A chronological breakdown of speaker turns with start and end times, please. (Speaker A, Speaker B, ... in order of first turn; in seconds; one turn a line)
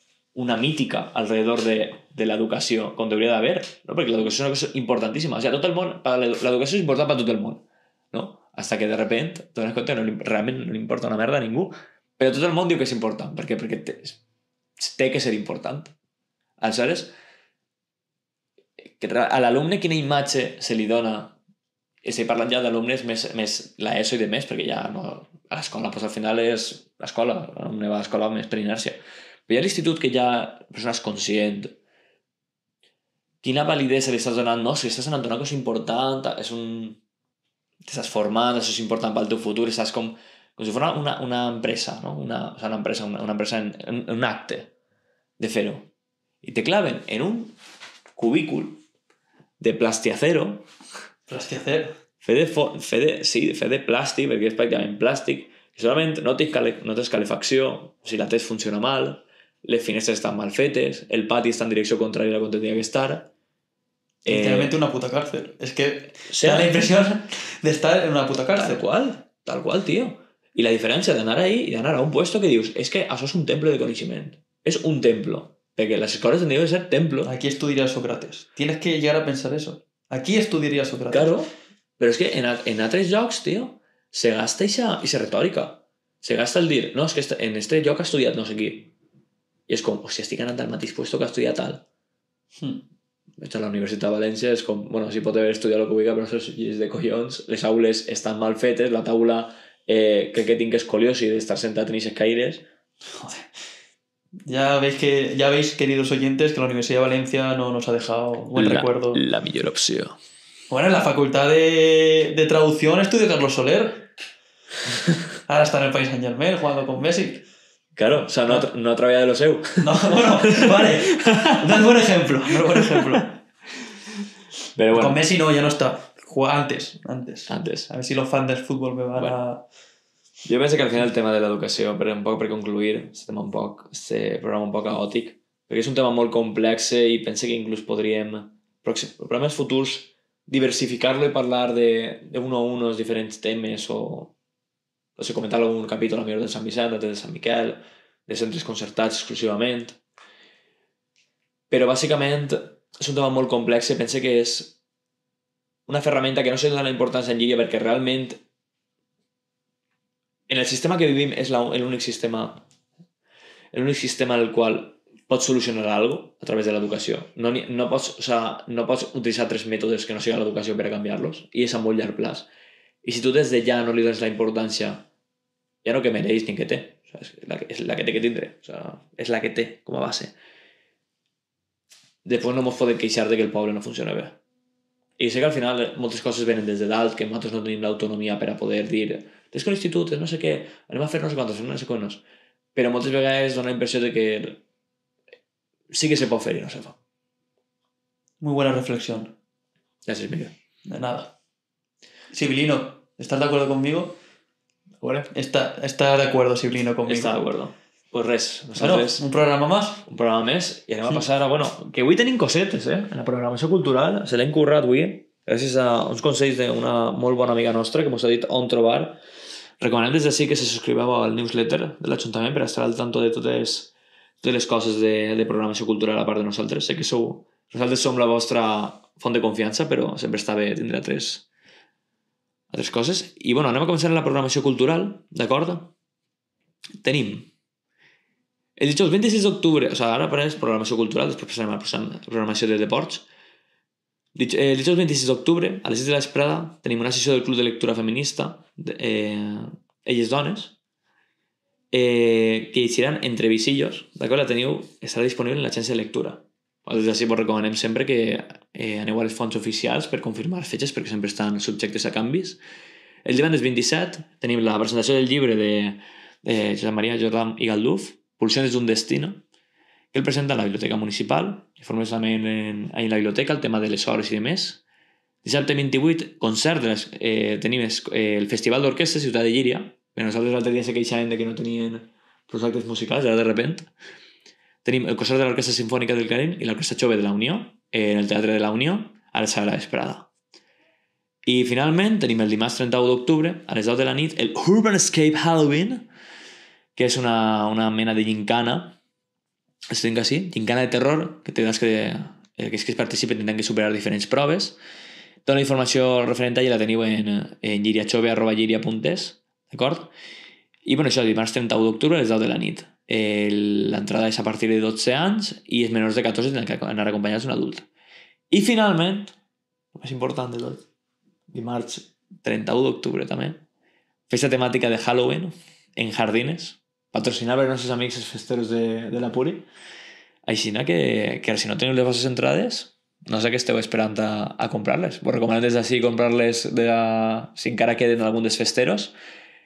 Speaker A: 0.3-14.2
Speaker A: 14.8-15.9
Speaker A: 16.6-17.1
Speaker A: 18.9-21.4
Speaker A: 22.0-31.8
Speaker A: 33.4-37.0
Speaker A: 37.8-44.7
Speaker A: 45.4-45.9
Speaker A: 46.4-47.5
Speaker A: 48.1-48.8
Speaker A: 49.6-50.6
Speaker B: 51.3-52.0
Speaker A: 52.2-63.3
Speaker A: 64.2-64.7
Speaker B: 64.3-68.8
Speaker A: 66.3-66.9
Speaker A: 68.5-77.3
Speaker B: 77.2-81.3
Speaker A: 81.1-88.9
Speaker A: 89.7-91.8
Speaker B: 92.6-92.8
Speaker A: 93.4-102.6
Speaker B: 103.1-103.5
Speaker B: 104.5-109.2
Speaker A: 108.6-110.2
Speaker B: 110.7-114.1
Speaker B: 115.5-117.4
Speaker A: 118.0-121.7
Speaker B: 119.8-123.4
Speaker A: 124.8-125.2
Speaker B: 124.9-129.6
Speaker A: 127.5-127.9
Speaker A: 130.4-144.3
Speaker A: 145.2-150.0
Speaker A: 151.7-154.8
Speaker A: 155.9-158.4
Speaker A: 160.5-162.6
Speaker A: 163.7-172.5
Speaker A: 173.0-175.1
Speaker A: 175.8-180.3
Speaker A: 182.2-184.4
Speaker A: 185.2-192.2
Speaker A: 192.7-194.6
Speaker A: 195.9-197.0
Speaker B: 198.4-199.3
Speaker A: 200.1-200.5
Speaker B: 200.9-201.3
Speaker B: 202.3-204.2
Speaker A: 205.0-205.3
Speaker B: 205.3-207.4
Speaker A: 207.1-209.2
Speaker B: 208.7-210.0
Speaker A: 210.1-219.2
Speaker A: 219.8-231.4
Speaker A: 232.7-235.9
Speaker A: 237.0-237.5
Speaker A: 238.8-243.2
Speaker A: 244.3-250.7
Speaker A: 251.9-262.6
Speaker A: 263.2-269.4
Speaker A: 270.1-274.8
Speaker A: 275.4-283.9
Speaker A: 284.8-290.3
Speaker A: 291.4-296.1
Speaker A: 296.9-299.0
Speaker A: 299.9-304.8
Speaker A: 305.4-310.1
Speaker A: 310.8-317.9
Speaker A: 318.5-319.3
Speaker A: 319.9-320.8
Speaker A: 321.5-323.6
Speaker A: 324.3-329.6
Speaker A: 330.4-339.1